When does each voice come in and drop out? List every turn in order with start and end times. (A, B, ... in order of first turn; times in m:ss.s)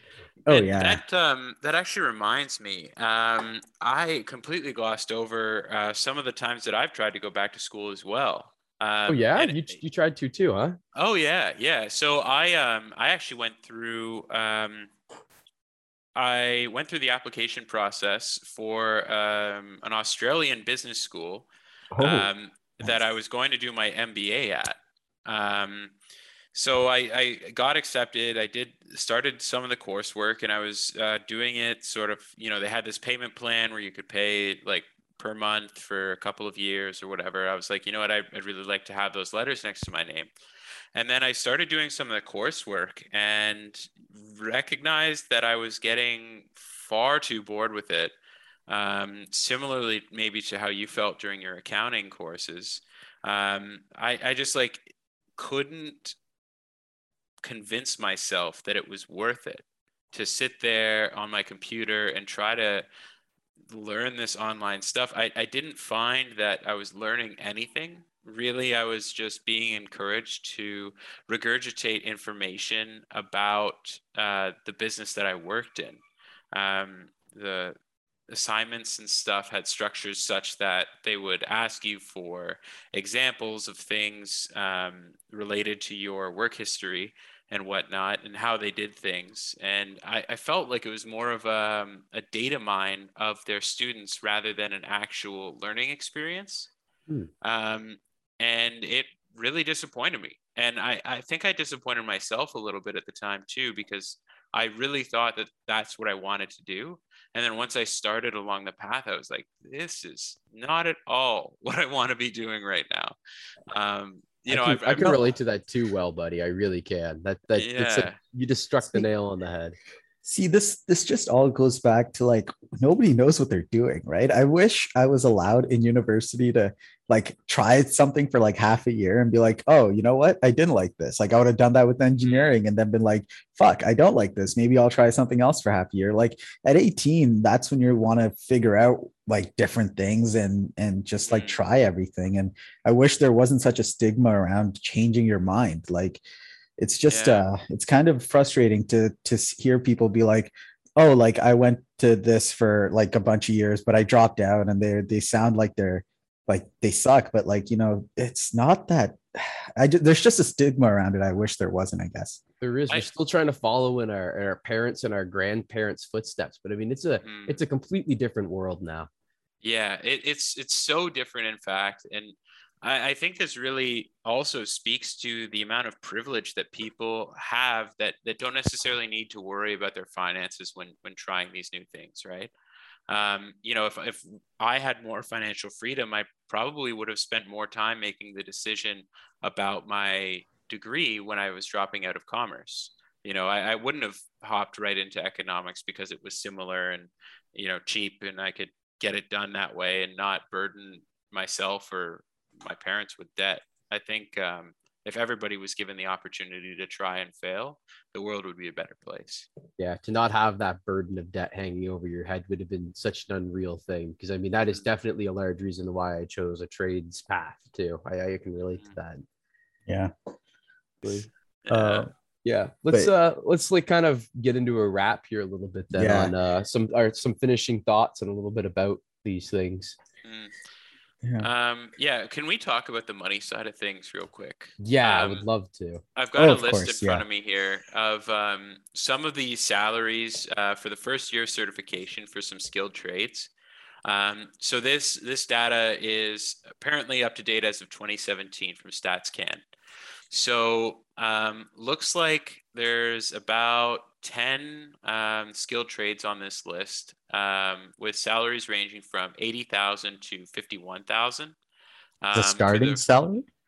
0:00.4-0:01.0 A
0:00.5-0:09.6 B
0:09.1-0:10.8 C
0:10.9-0:14.9 B
0:16.2-0:21.5 B
0:22.0-0:22.3 A
0:22.0-0:25.9 B
0:26.5-0:40.3 B
0:40.9-0:48.1 B
0:48.7-0:56.1 B
0:57.4-1:02.8 B
1:03.7-1:16.0 B
1:16.5-1:17.8 B
1:18.3-1:36.7 B
1:37.4-1:53.2 B
1:53.7-1:55.2 B
1:54.5-1:59.8 C
1:57.6-1:58.2 B
2:00.2-2:26.2 A
2:12.2-2:12.5 B
2:21.2-2:21.6 B
2:26.8-2:42.4 A
2:27.1-2:27.4 B
2:42.6-2:49.1 C
2:47.2-2:47.6 B
2:49.6-3:02.5 B
3:03.1-3:29.5 B
3:29.8-3:39.2 C
3:41.6-3:42.1 B
3:41.7-3:42.1 A
3:42.4-3:50.0 C
3:45.9-3:46.3 A
3:50.2-3:50.5 B
3:51.2-3:51.5 A
3:51.4-3:55.5 B
3:54.8-3:56.0 C
3:56.2-4:03.5 B
3:56.4-3:57.2 A
4:04.0-4:09.6 B
4:10.3-4:21.6 B
4:22.2-4:23.0 B
4:22.3-4:23.4 A